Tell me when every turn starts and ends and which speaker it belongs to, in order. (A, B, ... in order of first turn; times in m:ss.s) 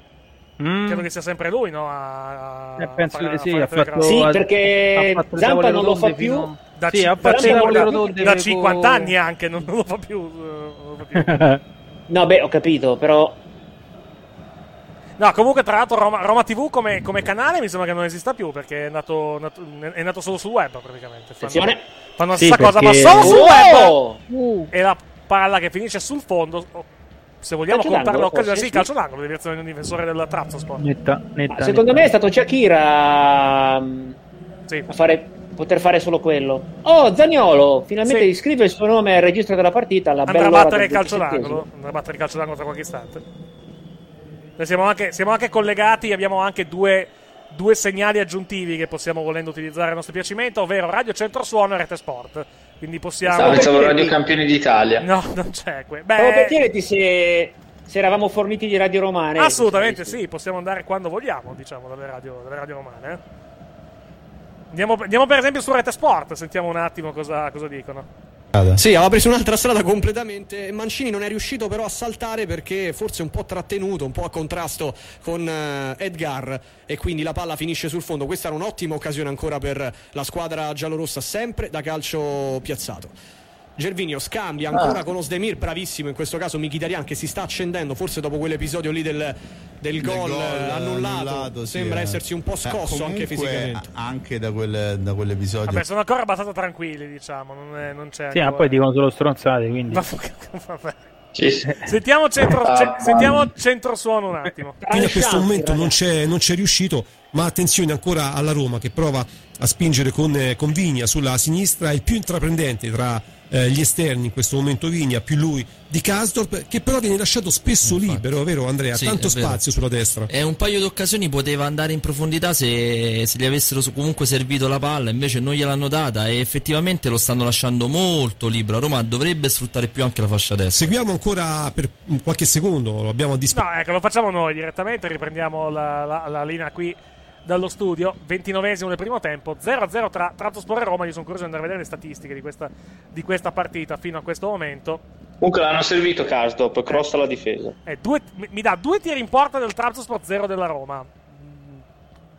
0:00.6-0:01.1 A
0:00.9-0:04.3 B
0:02.8-0:09.2 A
0:04.0-0:06.5 C
0:06.8-0:11.4 B
0:07.2-0:08.1 C
0:11.2-0:11.6 A
0:12.1-0:13.4 C
0:15.2-0:24.0 B
0:21.4-0:21.8 C
0:22.3-0:23.7 A
0:23.2-0:24.2 C
0:24.3-0:24.7 A
0:24.7-0:26.8 B
0:27.4-0:30.8 B
0:27.7-0:28.9 C
0:30.8-0:32.1 A
0:31.5-0:34.2 C
0:34.9-0:41.6 C
0:40.3-0:43.2 B
0:44.6-0:53.7 B
0:53.3-0:54.2 C
0:53.3-0:55.1 D
0:55.0-0:56.6 B
0:56.2-1:00.2 C
0:59.4-1:03.2 B
1:04.7-1:08.1 B
1:08.8-1:23.1 E
1:23.8-1:33.8 E
1:30.0-1:35.8 F
1:35.7-1:38.8 B
1:38.3-1:40.0 A
1:39.9-1:41.0 B
1:41.3-1:41.8 D
1:41.8-1:44.8 B
1:42.7-1:43.5 D
1:44.8-1:46.0 C
1:44.9-2:00.3 G
1:57.8-1:58.2 H
1:58.9-2:10.9 H
2:10.7-2:13.7 G
2:13.5-2:25.0 B
2:25.4-2:27.8 D
2:27.8-2:31.8 B